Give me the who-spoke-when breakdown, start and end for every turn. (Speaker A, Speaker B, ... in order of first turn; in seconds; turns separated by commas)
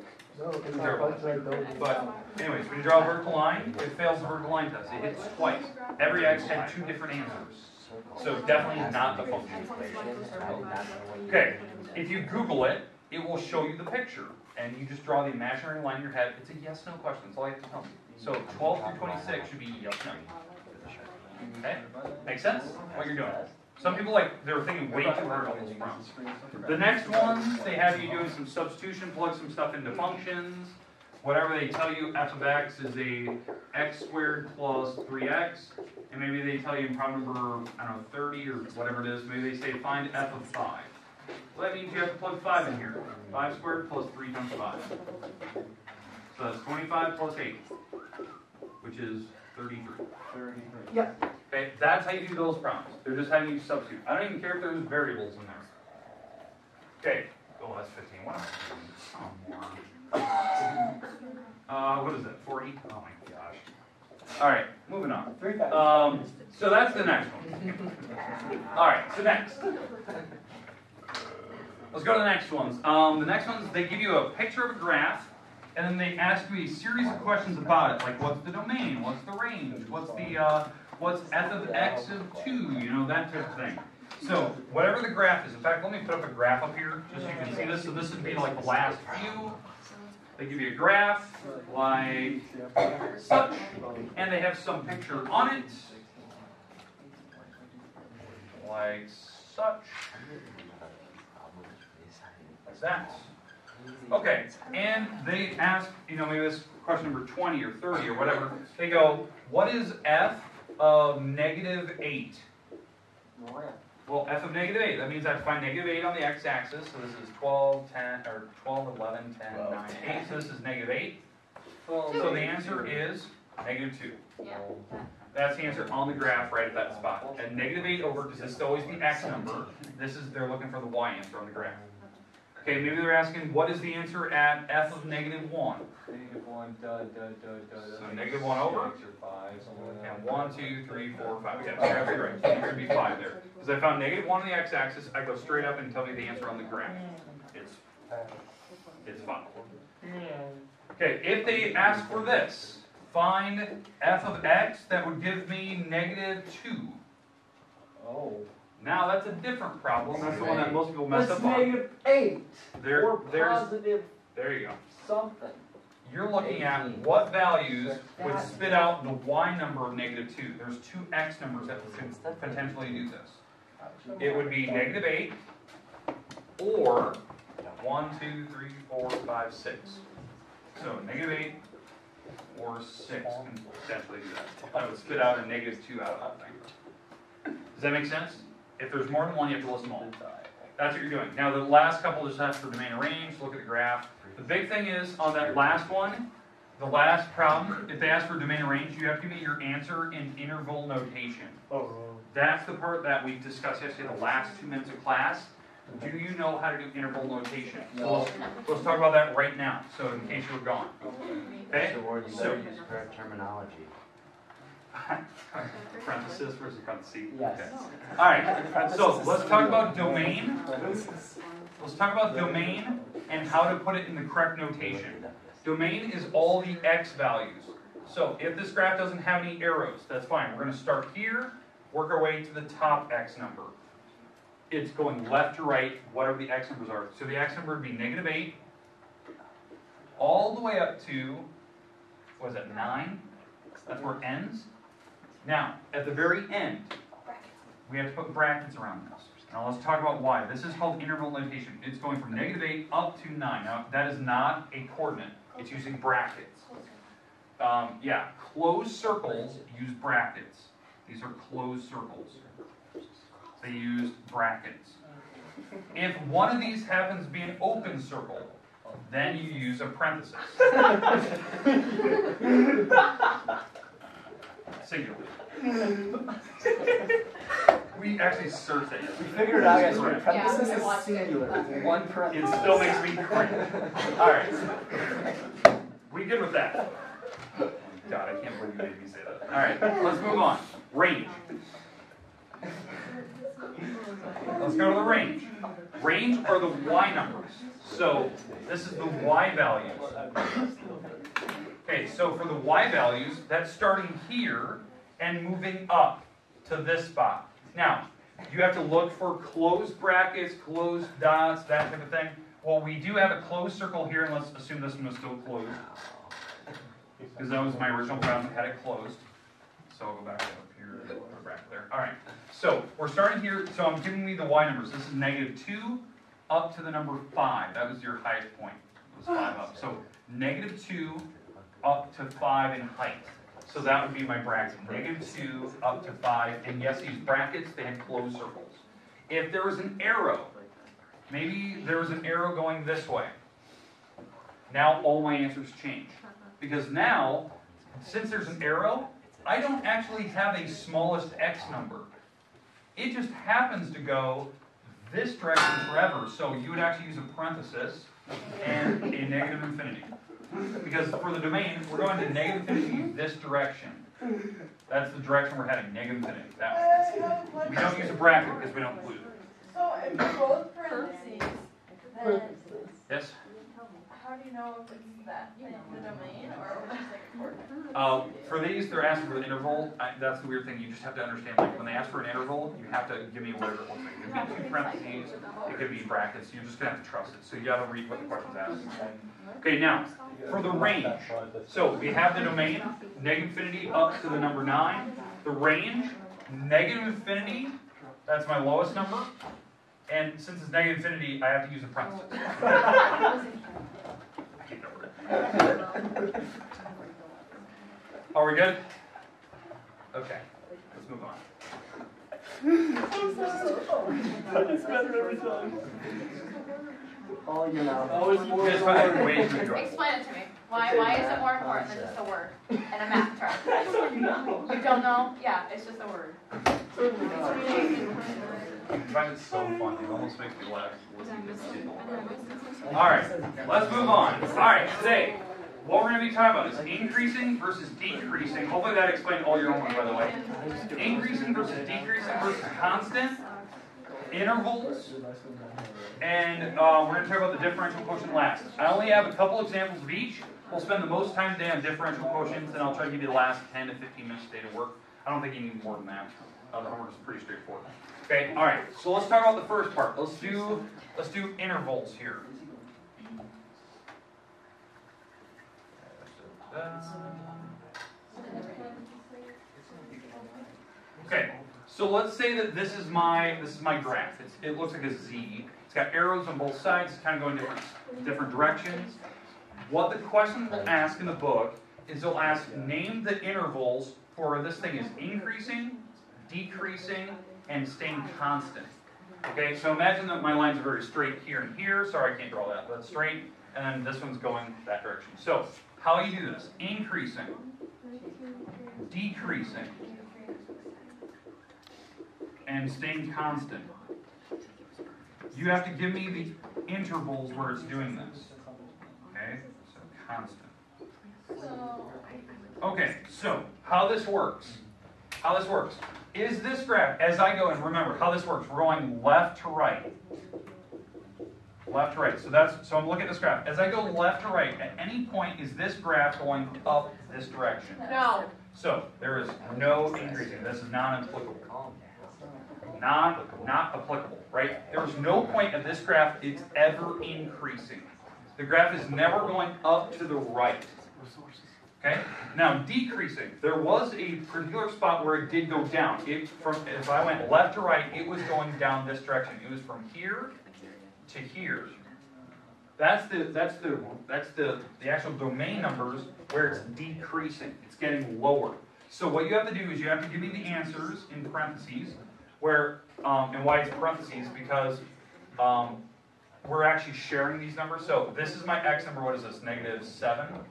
Speaker A: 0.7-9.7, Speaker B: 8.2-11.5, Speaker A: 11.3-20.2, Speaker C: 21.4-22.5, Speaker A: 21.6-26.1, Speaker B: 22.8-23.6, Speaker C: 24.9-28.0, Speaker A: 26.6-40.9, Speaker A: 41.5-44.9, Speaker A: 46.3-47.6, Speaker A: 48.8-50.0, Speaker C: 50.3-51.1, Speaker A: 51.5-55.7, Speaker A: 57.0-59.8, Speaker A: 61.7-63.6, Speaker A: 64.4-67.9, Speaker C: 65.4-66.3, Speaker A: 68.7-69.6, Speaker A: 71.9-89.6, Speaker A: 90.4-92.5, Speaker A: 93.1-96.0, Speaker A: 98.5-100.1, Speaker B: 100.3-102.6, Speaker A: 102.6-103.3, Speaker A: 104.1-112.5, Speaker C: 113.3-113.8, Speaker A: 114.0-121.2, Speaker B: 119.5-120.3, Speaker C: 121.8-123.0, Speaker A: 122.1-124.2, Speaker D: 122.1-122.5, Speaker D: 124.4-125.0, Speaker A: 125.3-131.8, Speaker A: 132.6-135.9, Speaker C: 136.1-140.0, Speaker A: 137.9-139.0, Speaker A: 140.0-147.8, Speaker C: 141.8-142.6, Speaker A: 149.0-149.5, Speaker A: 150.9-157.0, Speaker C: 158.0-158.5, Speaker A: 158.8-161.8, Speaker B: 160.1-160.9, Speaker C: 161.0-164.1, Speaker A: 162.7-163.8, Speaker A: 164.3-164.8, Speaker C: 164.9-165.6, Speaker A: 166.0-173.4, Speaker B: 166.4-167.3, Speaker C: 167.7-168.7, Speaker B: 172.2-172.9, Speaker C: 173.8-175.0, Speaker A: 174.2-175.4, Speaker A: 176.6-177.2, Speaker A: 177.8-180.0, Speaker A: 180.7-181.6, Speaker A: 182.5-186.7, Speaker A: 187.7-190.1, Speaker C: 189.9-190.5, Speaker A: 190.8-196.2, Speaker A: 196.8-201.6, Speaker C: 201.7-202.2, Speaker A: 202.3-210.9, Speaker C: 207.9-208.3, Speaker A: 211.7-212.6, Speaker B: 211.7-213.9, Speaker A: 214.9-220.6, Speaker C: 217.3-217.7, Speaker C: 219.7-220.0, Speaker A: 221.8-233.7, Speaker A: 234.7-238.6, Speaker A: 240.2-241.5, Speaker A: 242.4-243.2, Speaker A: 243.8-244.7, Speaker A: 245.4-246.9, Speaker A: 247.8-256.7, Speaker D: 256.7-257.0, Speaker A: 257.6-262.4, Speaker A: 263.6-265.0, Speaker A: 265.9-270.8, Speaker A: 274.8-275.3, Speaker A: 277.9-280.3, Speaker C: 279.1-283.3, Speaker D: 280.2-282.2, Speaker A: 282.3-284.6, Speaker A: 286.1-286.9, Speaker A: 288.0-291.4, Speaker A: 294.5-300.1, Speaker A: 301.8-315.8, Speaker A: 317.3-319.2, Speaker A: 319.9-331.3, Speaker A: 331.8-340.5, Speaker A: 341.3-343.3, Speaker A: 344.7-352.1, Speaker A: 352.9-360.1, Speaker A: 360.7-364.1, Speaker A: 364.9-369.3, Speaker D: 367.1-368.1, Speaker D: 369.6-372.6, Speaker A: 373.1-373.4, Speaker D: 374.1-377.7, Speaker A: 377.9-388.9, Speaker A: 389.6-397.7, Speaker A: 398.2-399.3, Speaker A: 400.1-403.3, Speaker A: 404.6-405.1, Speaker A: 408.3-408.8, Speaker A: 410.1-411.4, Speaker C: 417.5-419.5, Speaker B: 417.9-418.8, Speaker A: 418.6-420.0, Speaker D: 419.6-423.7, Speaker B: 420.7-422.1, Speaker D: 424.7-426.4, Speaker D: 427.4-428.6, Speaker A: 428.9-432.0, Speaker A: 432.9-440.4, Speaker A: 440.9-443.4, Speaker A: 444.3-445.1, Speaker A: 446.2-462.5, Speaker A: 466.0-467.6, Speaker D: 468.3-469.0, Speaker A: 471.2-479.2, Speaker A: 479.8-488.9, Speaker A: 489.4-497.6, Speaker A: 499.1-499.9, Speaker A: 502.6-503.9, Speaker A: 505.5-508.5, Speaker A: 509.3-510.7, Speaker D: 511.5-512.2, Speaker A: 512.8-514.8, Speaker A: 515.4-520.1, Speaker A: 521.9-528.0, Speaker D: 528.0-528.5, Speaker A: 528.7-531.7, Speaker A: 532.9-541.0, Speaker A: 542.0-550.5, Speaker A: 551.2-552.0, Speaker A: 553.0-565.0, Speaker A: 565.6-566.0, Speaker A: 566.6-570.6